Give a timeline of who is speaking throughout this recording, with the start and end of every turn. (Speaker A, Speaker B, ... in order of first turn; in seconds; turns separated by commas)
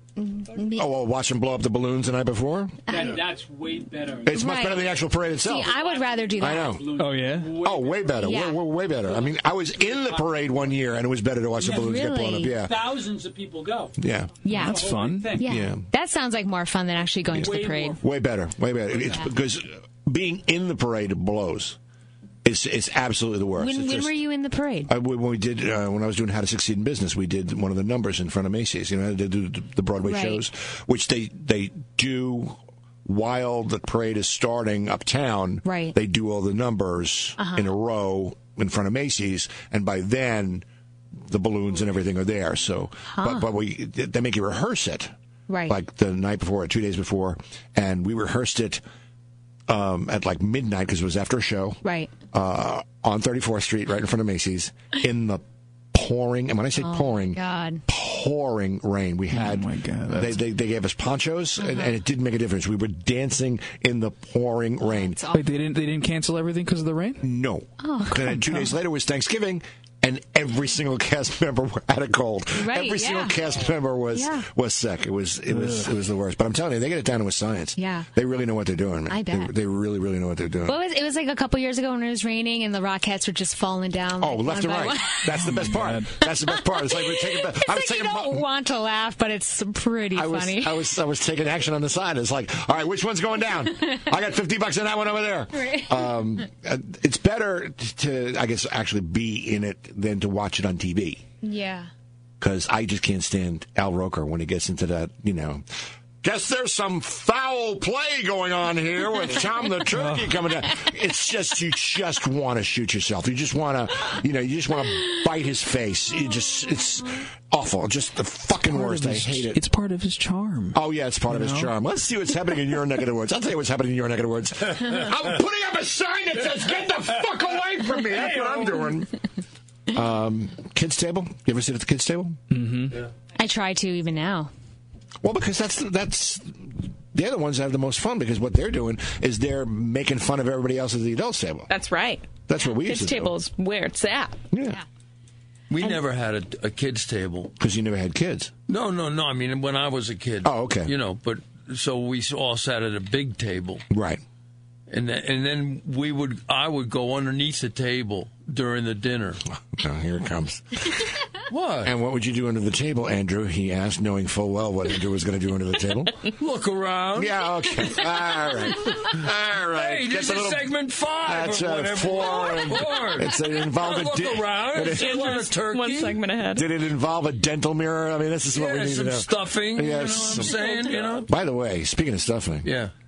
Speaker A: 0.2-0.9, Speaker B: 0.8-2.9, Speaker C: 2.9-10.5, Speaker A: 2.9-3.2, Speaker B: 4.2-5.8, Speaker A: 4.3-4.9, Speaker A: 5.4-6.9, Speaker B: 6.4-6.9, Speaker D: 6.9-7.6, Speaker B: 7.6-12.8, Speaker A: 8.2-8.6, Speaker C: 11.6-15.6, Speaker A: 11.6-12.6, Speaker B: 14.0-14.3, Speaker A: 14.4-18.0, Speaker D: 14.5-15.4, Speaker B: 15.4-15.8, Speaker B: 17.3-21.8, Speaker C: 17.3-18.0, Speaker B: 22.4-24.2, Speaker A: 23.6-24.9, Speaker B: 24.9-40.6, Speaker A: 30.0-30.4, Speaker A: 35.7-36.0, Speaker A: 37.4-37.7, Speaker B: 41.3-45.1, Speaker A: 43.1-43.5, Speaker A: 45.5-45.8, Speaker B: 45.7-48.8, Speaker B: 49.7-65.2, Speaker A: 51.8-52.1, Speaker A: 56.8-57.8, Speaker D: 59.3-60.4, Speaker A: 61.6-61.9, Speaker A: 64.8-65.5, Speaker D: 65.3-67.2, Speaker B: 67.2-80.8, Speaker A: 67.8-68.4, Speaker D: 68.3-68.7, Speaker A: 72.6-73.4, Speaker A: 74.1-74.5, Speaker D: 75.5-75.9, Speaker A: 77.8-78.1, Speaker A: 79.1-79.5, Speaker A: 80.7-90.8, Speaker B: 84.2-88.5, Speaker D: 85.4-86.2, Speaker B: 90.1-101.2, Speaker A: 95.6-96.0, Speaker A: 101.4-101.9, Speaker B: 102.4-105.7, Speaker B: 106.2-119.6, Speaker D: 109.9-110.3, Speaker D: 118.7-121.7, Speaker B: 120.7-129.2, Speaker E: 128.2-128.8, Speaker B: 129.9-132.4, Speaker D: 132.5-133.0, Speaker A: 133.4-134.5, Speaker B: 135.2-141.7, Speaker F: 141.7-144.4, Speaker B: 142.5-143.3, Speaker B: 144.5-144.8, Speaker E: 145.7-147.5, Speaker B: 147.6-148.5, Speaker E: 148.7-153.8, Speaker B: 150.4-150.9, Speaker B: 153.9-154.2, Speaker E: 154.9-159.4, Speaker B: 159.7-161.0, Speaker E: 161.5-162.0, Speaker B: 161.8-166.2, Speaker E: 166.3-167.9, Speaker B: 167.2-170.7, Speaker E: 169.6-176.2, Speaker B: 171.2-175.3, Speaker F: 174.9-176.7, Speaker B: 176.6-180.7, Speaker E: 178.5-181.3, Speaker B: 181.2-182.7, Speaker E: 182.6-182.9